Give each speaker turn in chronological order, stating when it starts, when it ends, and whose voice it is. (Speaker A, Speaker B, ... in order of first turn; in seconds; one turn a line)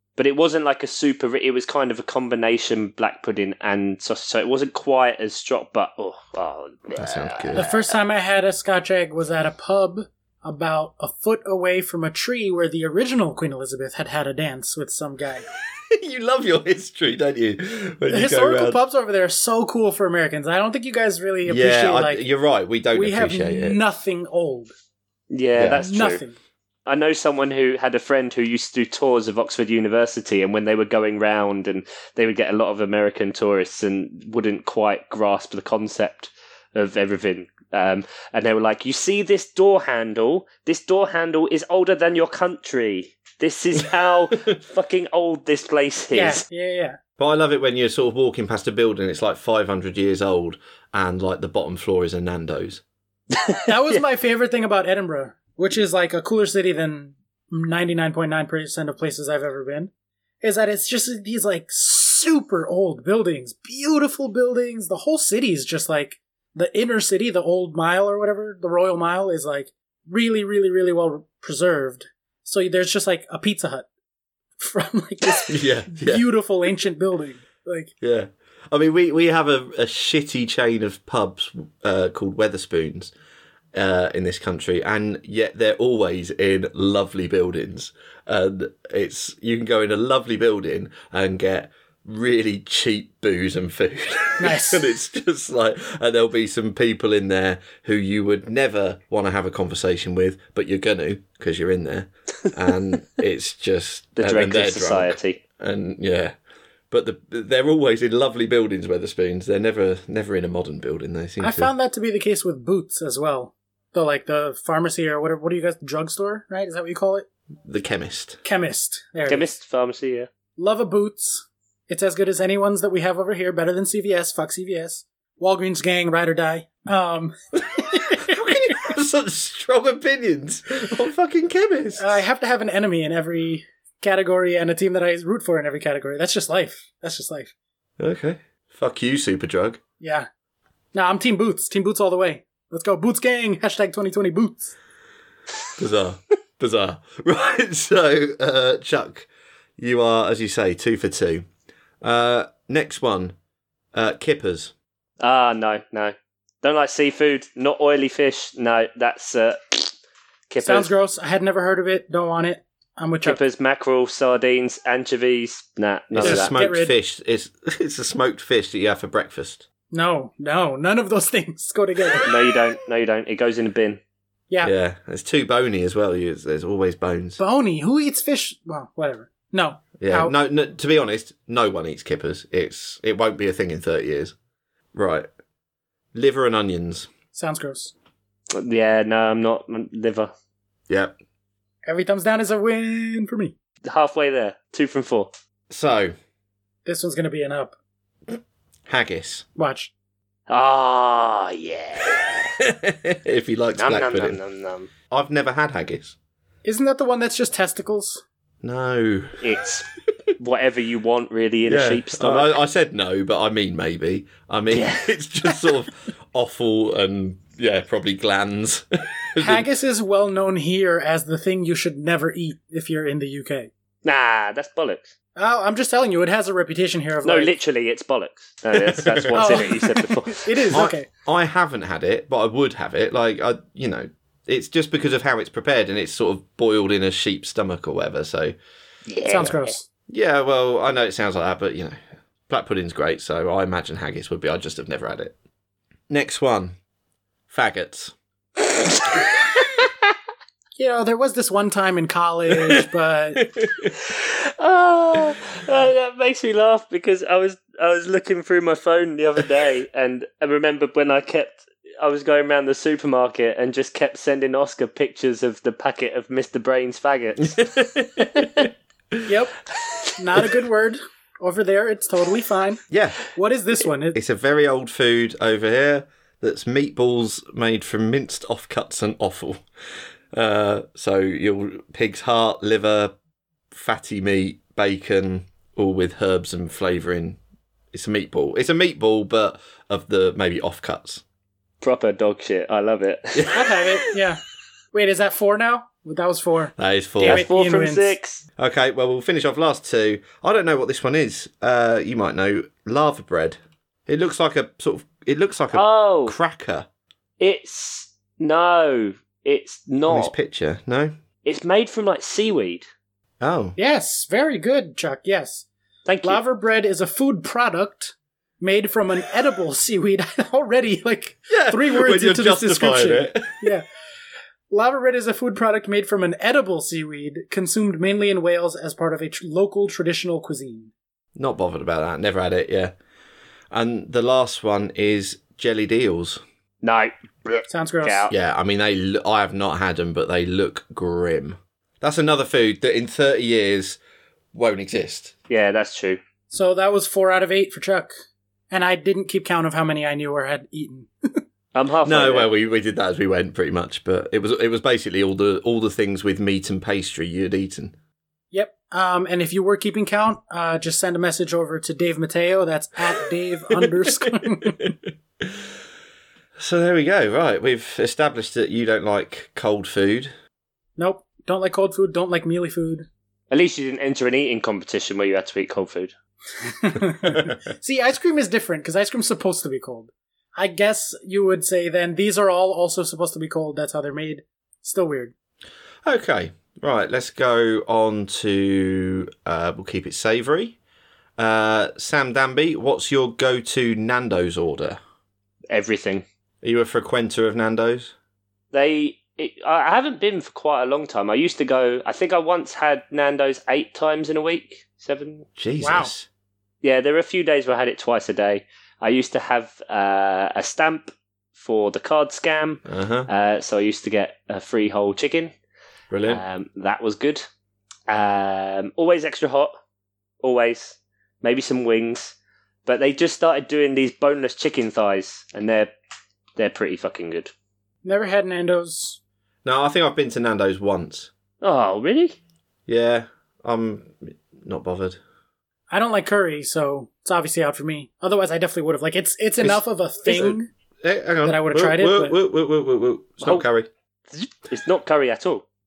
Speaker A: 0.2-7.7
Speaker B: 7.0-7.8
Speaker C: 7.5-15.4
Speaker B: 15.9-18.8
Speaker C: 18.1-22.2
Speaker B: 21.4-23.8
Speaker C: 22.9-24.7
Speaker A: 25.3-26.2
Speaker B: 25.6-25.8
Speaker C: 25.8-26.4
Speaker A: 26.9-46.4
Speaker C: 46.1-47.0
Speaker B: 47.2-52.8
Speaker A: 53.3-54.0
Speaker C: 53.6-59.9
Speaker C: 60.4-73.9
Speaker C: 74.6-77.9
Speaker B: 75.5-76.3
Speaker B: 78.0-83.1
Speaker B: 83.7-106.3
Speaker C: 94.4-94.9
Speaker A: 104.2-105.4
Speaker B: 106.9-111.7
Speaker C: 111.4-117.2
Speaker B: 117.7-118.4
Speaker C: 118.4-119.5
Speaker A: 119.3-120.3
Speaker C: 120.6-128.4
Speaker B: 127.8-132.2
Speaker C: 131.9-137.5
Speaker B: 138.0-139.8
Speaker C: 140.0-140.3
Speaker C: 140.9-144.8
Speaker B: 145.8-151.4
Speaker B: 152.0-153.3
Speaker B: 153.9-154.7
Speaker A: 155.2-159.9
Speaker A: 160.5-160.9
Speaker C: 160.6-163.4
Speaker A: 163.2-166.5
Speaker B: 166.1-169.6
Speaker C: 166.2-166.9
Speaker C: 169.9-172.3
Speaker A: 172.2-174.0
Speaker B: 174.6-177.4
Speaker C: 177.4-180.3
Speaker B: 180.0-184.3
Speaker B: 184.9-185.3
Speaker B: 186.1-187.1
Speaker C: 187.3-187.9
Speaker A: 188.5-190.3
Speaker B: 190.9-191.1
Speaker C: 191.8-193.6
Speaker A: 193.8-195.3
Speaker B: 195.7-196.1
Speaker C: 196.8-197.8
Speaker B: 198.3-199.4
Speaker C: 199.6-199.9
Speaker A: 200.5-202.5
Speaker B: 202.6-204.4
Speaker A: 203.8-204.9
Speaker B: 205.1-206.1
Speaker C: 206.6-208.2
Speaker B: 208.6-209.4
Speaker A: 209.4-212.5
Speaker B: 211.7-219.7
Speaker A: 214.7-215.7
Speaker C: 219.4-223.7
Speaker A: 224.0-225.1
Speaker C: 225.3-227.5
Speaker A: 227.2-230.8
Speaker B: 228.7-229.8
Speaker C: 229.3-231.1
Speaker B: 230.7-238.5
Speaker A: 239.1-239.6
Speaker C: 239.2-239.9
Speaker B: 240.1-242.0
Speaker B: 242.5-245.3
Speaker B: 246.1-246.8
Speaker B: 247.5-248.1
Speaker C: 250.8-253.5
Speaker B: 253.6-253.9
Speaker A: 253.9-268.7
Speaker B: 267.6-269.2
Speaker C: 269.2-269.6
Speaker C: 270.2-272.8
Speaker B: 272.9-273.2
Speaker C: 273.3-274.2
Speaker B: 274.1-279.6
Speaker B: 280.3-283.1
Speaker B: 283.7-287.4
Speaker B: 287.9-291.2
Speaker A: 291.8-293.6
Speaker B: 293.3-293.9
Speaker C: 293.5-294.4
Speaker C: 294.9-298.1
Speaker B: 296.8-297.5
Speaker A: 297.2-298.4
Speaker B: 298.6-306.9
Speaker A: 305.7-306.4
Speaker A: 307.4-310.3
Speaker B: 310.1-311.1
Speaker A: 311.4-312.9
Speaker B: 313.4-313.8
Speaker C: 313.8-315.6
Speaker A: 316.1-316.4
Speaker C: 316.2-323.8
Speaker B: 321.5-323.7
Speaker C: 324.7-330.9
Speaker B: 331.4-332.9
Speaker B: 333.7-336.4
Speaker A: 336.8-338.3
Speaker C: 337.7-338.3
Speaker B: 338.3-344.0
Speaker B: 344.5-345.3
Speaker A: 345.5-346.2
Speaker C: 346.5-348.1
Speaker C: 348.7-351.4
Speaker A: 351.7-352.5
Speaker B: 352.0-357.9
Speaker C: 358.5-364.9
Speaker B: 363.7-365.6
Speaker B: 366.6-370.3
Speaker C: 371.0-373.1
Speaker A: 373.5-376.1
Speaker C: 376.7-385.3
Speaker B: 377.3-377.6
Speaker B: 386.0-390.8
Speaker B: 391.4-395.0
Speaker A: 395.7-396.2
Speaker B: 396.6-398.1
Speaker A: 398.7-405.5
Speaker B: 405.6-406.3
Speaker C: 405.8-406.1
Speaker A: 406.8-415.5
Speaker B: 412.9-413.3
Speaker B: 416.1-416.4
Speaker A: 416.3-417.4
Speaker A: 418.1-419.7
Speaker A: 420.4-425.9
Speaker A: 426.6-427.5
Speaker C: 428.0-429.2
Speaker B: 429.6-431.3
Speaker A: 431.6-432.4
Speaker B: 432.9-435.2
Speaker C: 435.9-440.7
Speaker B: 439.6-443.9
Speaker C: 441.4-442.4
Speaker A: 444.3-445.6